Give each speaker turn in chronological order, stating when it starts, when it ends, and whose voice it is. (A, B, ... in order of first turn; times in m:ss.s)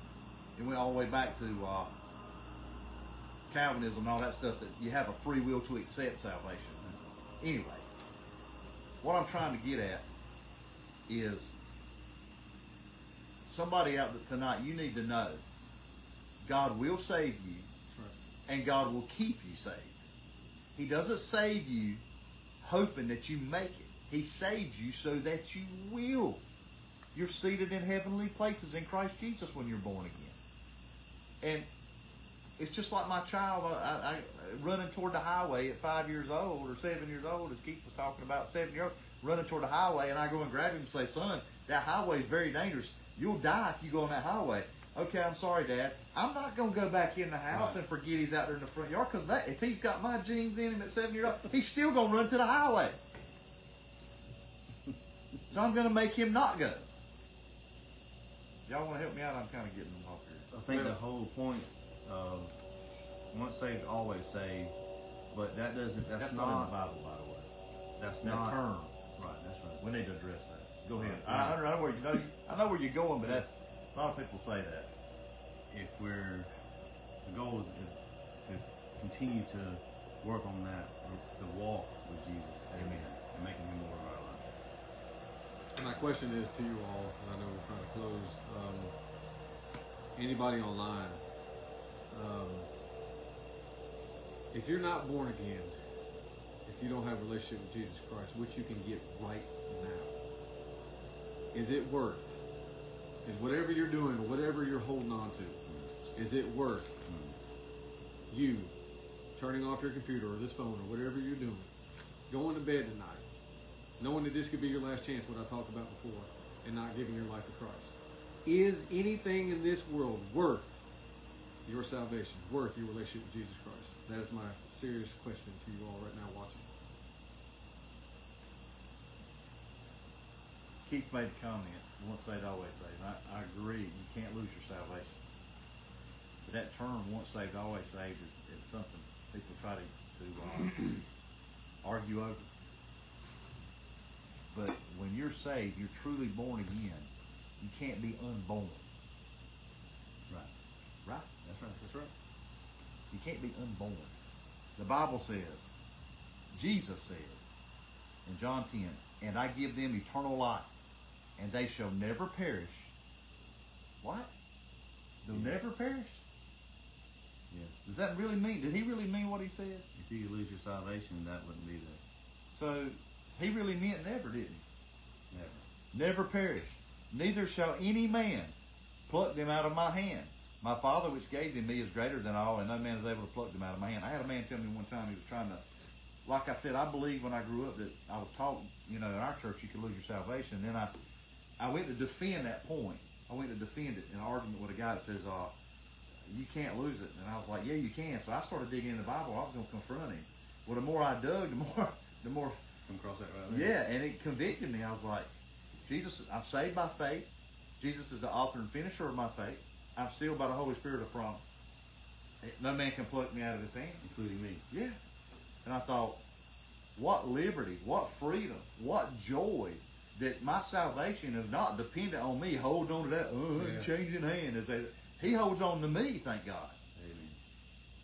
0:00.6-0:01.9 A
0:03.5-0:07.9 A
0:09.0-0:10.1 A
0:11.1-0:11.5 A
0:13.4-0:15.4 A
0:16.4-0:17.7 A
0:18.5-0:20.0 A
0:20.8-0:22.0 A
0:22.6-0:26.4 A
0:27.1-0:30.4 A
0:31.4-0:31.7 A
0:32.6-0:53.0 A
0:47.5-0:47.8 B
0:55.5-0:56.9 A
0:58.7-1:00.5 A
1:00.5-1:02.6 B
1:00.7-1:01.0 C
1:03.3-1:04.7 B
1:05.3-1:06.8 B
1:06.2-1:07.5 A
1:08.0-1:08.6 B
1:08.2-1:08.9 A
1:09.2-1:09.8 B
1:09.8-1:14.9 A
1:10.9-1:12.0 B
1:15.7-1:16.5 B
1:17.2-1:24.5 B
1:22.7-1:23.1 A
1:25.8-1:28.9 C
1:30.2-1:31.2 C
1:32.1-1:32.7 C
1:34.5-1:35.8 C
1:36.6-1:40.2 C
1:41.5-1:42.4 C
1:43.2-1:45.6 C
1:45.7-1:45.9 B
1:46.1-1:47.0 C
1:47.1-1:47.4 B
1:48.3-1:48.8 C
1:49.4-1:51.7 C
1:52.3-1:53.2 C
1:54.0-2:00.8 C
2:01.6-2:06.7 C
2:10.8-2:15.2 A
2:16.4-2:21.1 A
2:21.8-2:22.5 A
2:24.5-2:27.1 A
2:27.6-2:28.9 A
2:30.3-2:30.5 B
2:31.0-2:31.3 A
2:31.4-2:31.8 B
2:31.8-2:32.1 C
2:33.1-2:34.1 A
2:34.8-2:35.7 A
2:36.5-2:37.4 A
2:38.2-2:40.7 A
2:41.4-2:42.9 A
2:44.0-2:44.3 A
2:45.2-2:46.2 A
2:45.3-2:45.6 B
2:47.8-2:49.9 A
2:50.0-2:52.0 B
2:52.5-2:54.6 A
2:55.3-2:55.7 B
2:55.9-2:58.6 A
2:59.1-3:05.6 A
3:06.2-3:11.0 A
3:11.6-3:15.5 A
3:16.3-3:22.6 A
3:22.9-3:23.7 B
3:23.5-3:25.3 A
3:25.8-3:31.6 A
3:32.4-3:34.0 A
3:34.0-3:34.6 B
3:34.7-3:35.0 A
3:35.6-3:36.2 A
3:37.0-3:46.8 A
3:43.6-3:43.9 C
3:47.0-3:47.4 B